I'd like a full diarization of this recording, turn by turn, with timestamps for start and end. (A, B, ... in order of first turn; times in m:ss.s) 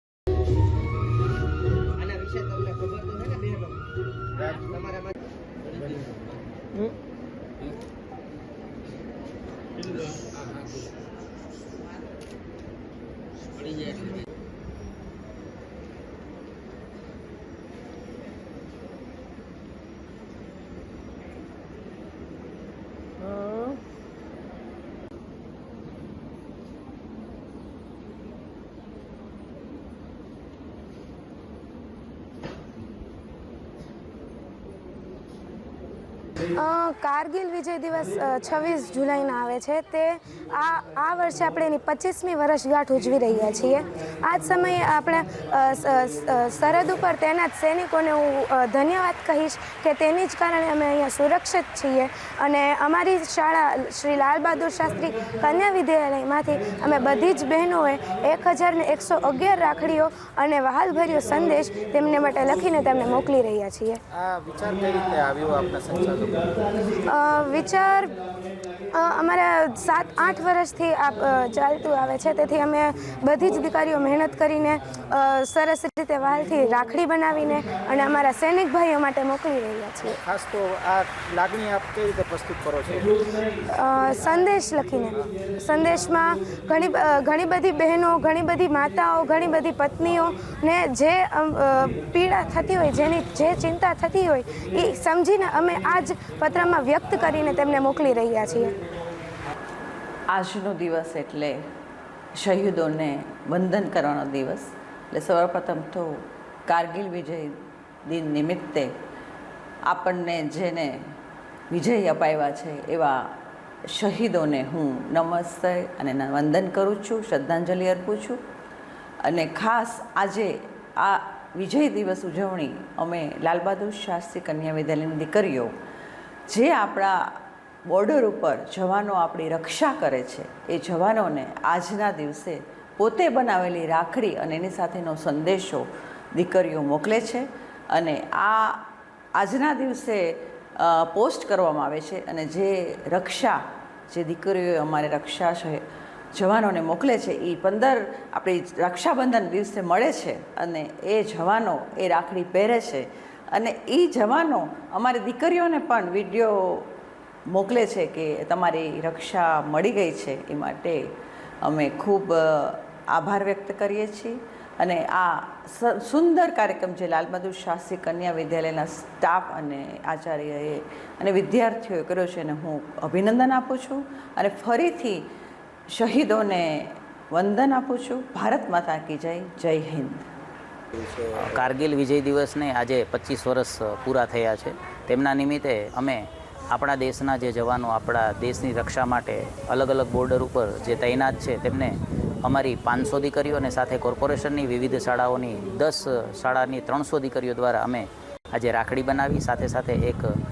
0:02.0-0:03.7 A
0:04.6-0:05.1 A
0:36.5-1:04.0 B
1:04.1-1:06.7 C
1:06.9-1:08.2 B
1:08.9-1:20.2 B
1:20.2-1:23.2 C
1:23.7-1:38.7 B
1:25.0-1:25.3 C
1:40.3-1:41.6 D
1:42.4-1:47.6 D
1:48.1-1:48.9 D
1:49.9-1:51.1 D
1:51.7-1:53.3 D
1:53.9-1:58.4 D
1:59.2-2:05.7 D
2:06.5-2:18.8 D
2:19.4-2:25.8 D
2:26.3-2:36.9 D
2:37.5-2:41.0 D
2:41.6-2:55.3 D
2:55.9-3:00.3 D
3:01.0-3:20.3 E